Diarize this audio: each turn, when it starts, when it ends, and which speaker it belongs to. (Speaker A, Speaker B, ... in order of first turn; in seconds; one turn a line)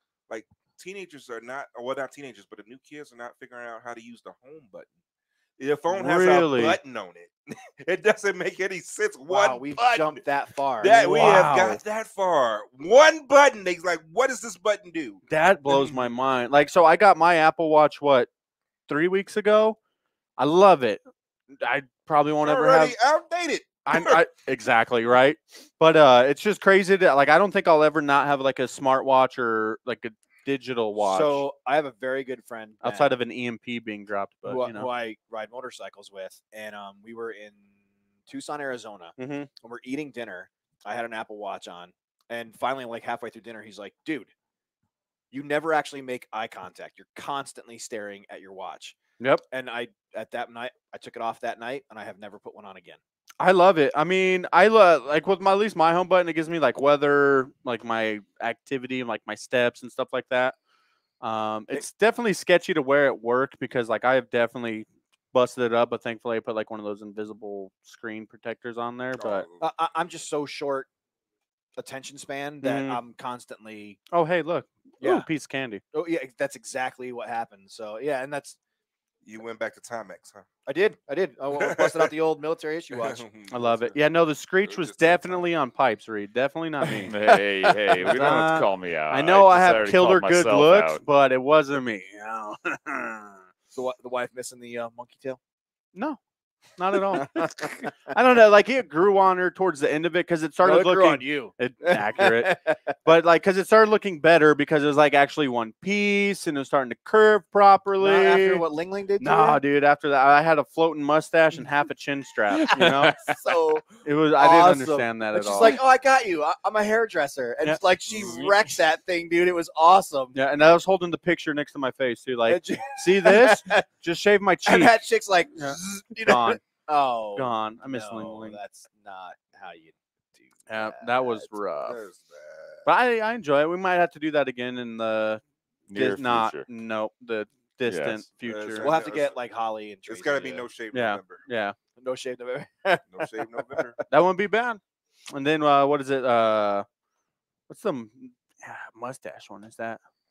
Speaker A: 0.3-4.9
Speaker A: 5.6-10.2
Speaker B: 5.9-6.8
Speaker C: 9.3-11.7
Speaker A: 10.8-16.1
Speaker B: 11.0-11.8
Speaker B: 15.3-18.3
Speaker B: 18.9-19.8
Speaker B: 20.4-21.0
Speaker B: 21.6-23.0
Speaker A: 22.4-24.2
Speaker B: 23.9-31.4
Speaker C: 31.0-33.1
Speaker B: 32.8-34.9
Speaker C: 34.5-37.7
Speaker C: 38.3-44.3
Speaker B: 39.2-39.5
Speaker C: 45.3-49.0
Speaker C: 49.5-53.0
Speaker B: 53.4-60.6
Speaker B: 61.2-69.5
Speaker A: 69.1-69.6
Speaker C: 69.6-70.9
Speaker C: 71.8-74.0
Speaker B: 72.6-73.0
Speaker B: 74.1-75.8
Speaker C: 75.0-75.3
Speaker C: 75.9-78.6
Speaker A: 79.2-80.5
Speaker C: 80.7-83.2
Speaker A: 81.6-82.1
Speaker A: 82.9-85.5
Speaker B: 83.5-87.1
Speaker D: 87.1-91.0
Speaker B: 88.0-93.4
Speaker C: 93.7-95.4
Speaker B: 96.8-102.5
Speaker C: 97.1-98.1
Speaker C: 100.6-103.0
Speaker B: 103.0-108.6
Speaker C: 108.0-109.6
Speaker B: 109.2-113.2
Speaker D: 112.5-113.3
Speaker C: 112.7-120.4
Speaker B: 114.0-115.8
Speaker D: 118.2-118.5
Speaker B: 120.3-125.0
Speaker C: 122.5-123.9
Speaker C: 124.7-131.5
Speaker B: 125.6-126.6
Speaker B: 127.4-128.6
Speaker B: 130.7-132.0
Speaker A: 131.8-132.9
Speaker B: 132.9-135.4
Speaker D: 135.9-136.7
Speaker B: 135.9-138.9
Speaker D: 137.9-138.2
Speaker A: 138.4-139.4
Speaker C: 138.8-140.7
Speaker A: 140.1-141.5
Speaker B: 140.9-141.8
Speaker C: 142.0-143.0
Speaker A: 143.1-144.0
Speaker B: 144.1-144.8
Speaker B: 145.3-146.9
Speaker B: 147.7-150.0